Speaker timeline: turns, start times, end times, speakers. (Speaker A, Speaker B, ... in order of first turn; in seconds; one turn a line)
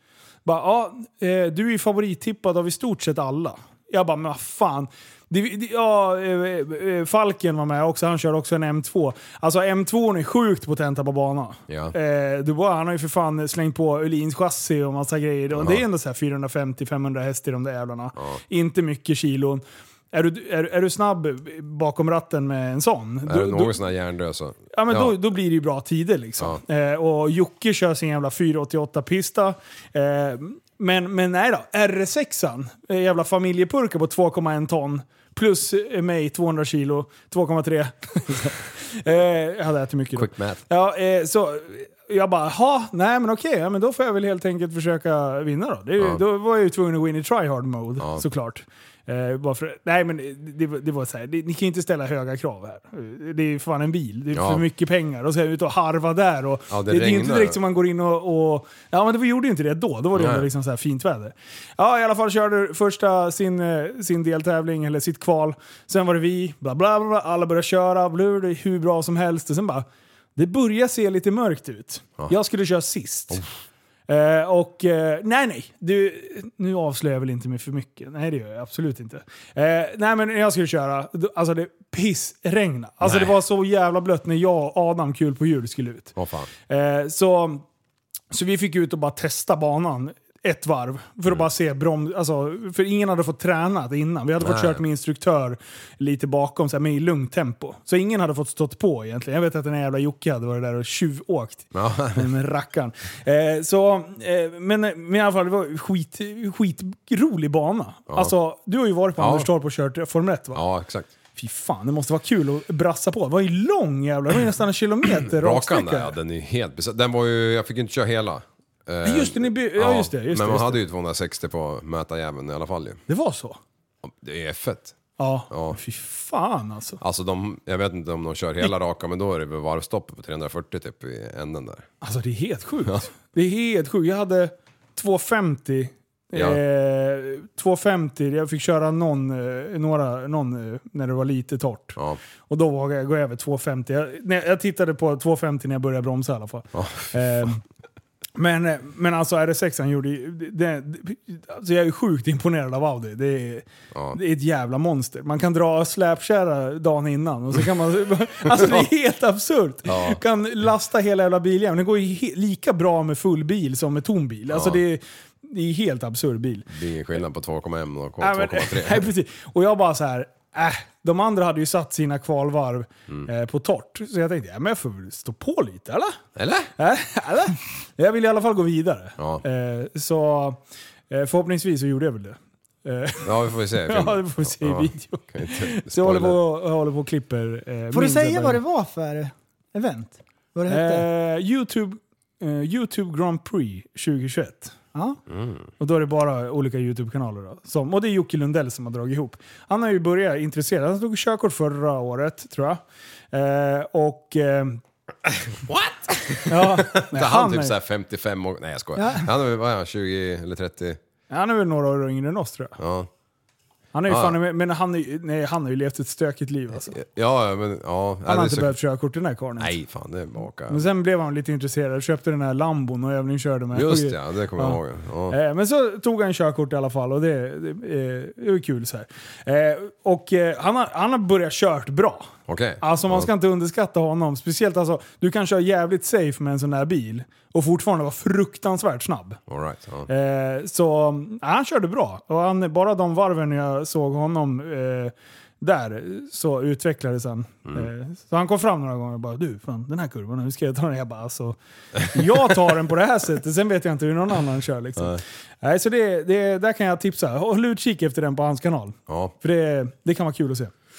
Speaker A: 0.4-23.8
Speaker B: 11.7-11.9
Speaker B: 15.5-15.8
Speaker B: 23.2-25.1
Speaker A: 24.7-69.8
Speaker B: 40.1-40.6
Speaker B: 54.3-54.6
Speaker B: 56.7-57.6
Speaker B: 60.1-60.5
Speaker A: 70.3-73.4
Speaker A: 74.1-86.1
Speaker B: 83.0-83.3
Speaker B: 86.2-86.5
Speaker A: 86.7-87.6
Speaker A: 88.3-110.6
Speaker B: 94.4-94.8
Speaker B: 101.7-102.3
Speaker B: 108.1-108.3
Speaker B: 109.2-109.5
Speaker B: 110.5-111.1
Speaker A: 111.3-116.1
Speaker B: 115.1-123.0
Speaker A: 119.0-120.8
Speaker A: 123.1-123.6
Speaker B: 124.0-125.0
Speaker A: 125.2-127.0
Speaker B: 125.5-125.8
Speaker B: 127.0-131.8
Speaker A: 132.0-142.0
Speaker B: 136.3-136.6
Speaker A: 142.5-147.6
Speaker B: 146.7-147.2
Speaker A: 148.3-166.7
Speaker B: 153.9-154.2
Speaker B: 158.5-158.9
Speaker B: 159.8-160.2
Speaker B: 164.5-164.8
Speaker B: 166.7-169.1
Speaker A: 168.2-176.2
Speaker B: 176.3-176.7
Speaker A: 176.8-180.6
Speaker B: 179.2-179.4
Speaker A: 181.1-188.6
Speaker B: 183.2-186.4
Speaker C: 187.9-191.1
Speaker A: 190.7-194.8
Speaker B: 195.3-195.7
Speaker A: 195.8-204.8
Speaker B: 205.3-211.0
Speaker A: 206.5-207.7
Speaker C: 209.0-209.3
Speaker A: 211.3-212.8
Speaker B: 212.8-213.1
Speaker A: 213.9-217.0
Speaker B: 214.1-214.4
Speaker B: 216.9-218.7
Speaker A: 218.2-219.7
Speaker B: 219.6-220.8
Speaker A: 220.7-239.4
Speaker B: 223.7-225.4
Speaker B: 232.5-233.3
Speaker B: 239.5-240.1
Speaker A: 240.1-260.7
Speaker B: 259.1-259.3